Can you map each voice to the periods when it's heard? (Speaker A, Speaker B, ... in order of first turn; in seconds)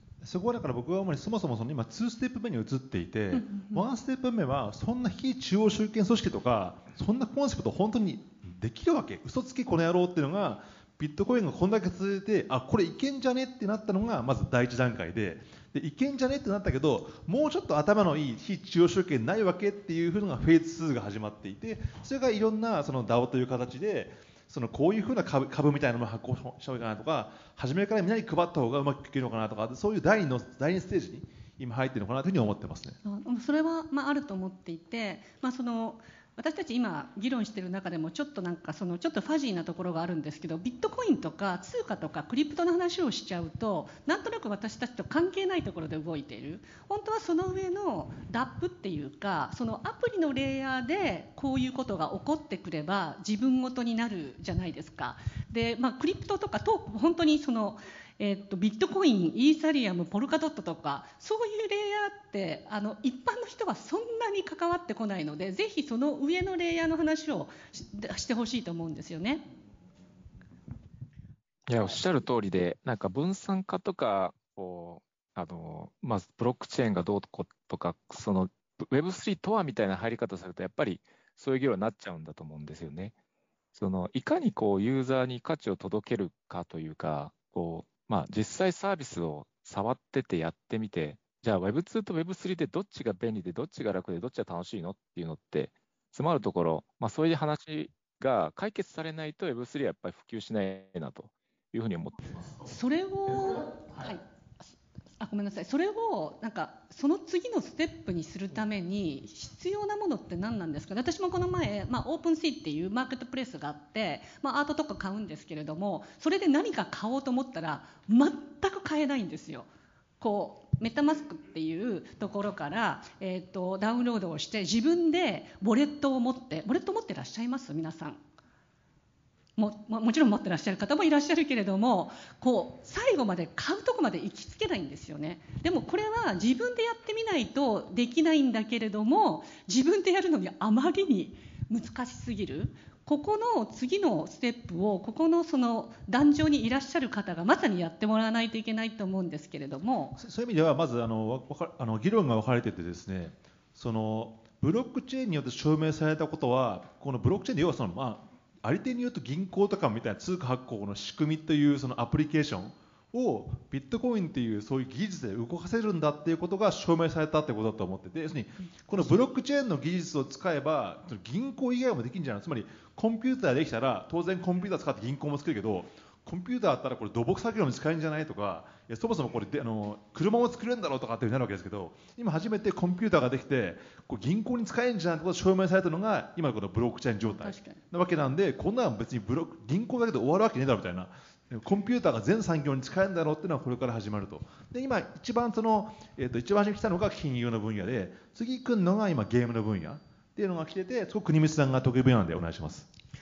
Speaker A: 0.2-33.0, 150.2-202.9
Speaker B: 3.3-3.8, 33.0-69.5, 102.7-104.2, 105.2-119.7, 120.2-128.2, 129.6-150.2, 168.8-169.2, 187.2-187.8
Speaker C: 71.7-83.1, 83.7-102.7, 103.3-104.1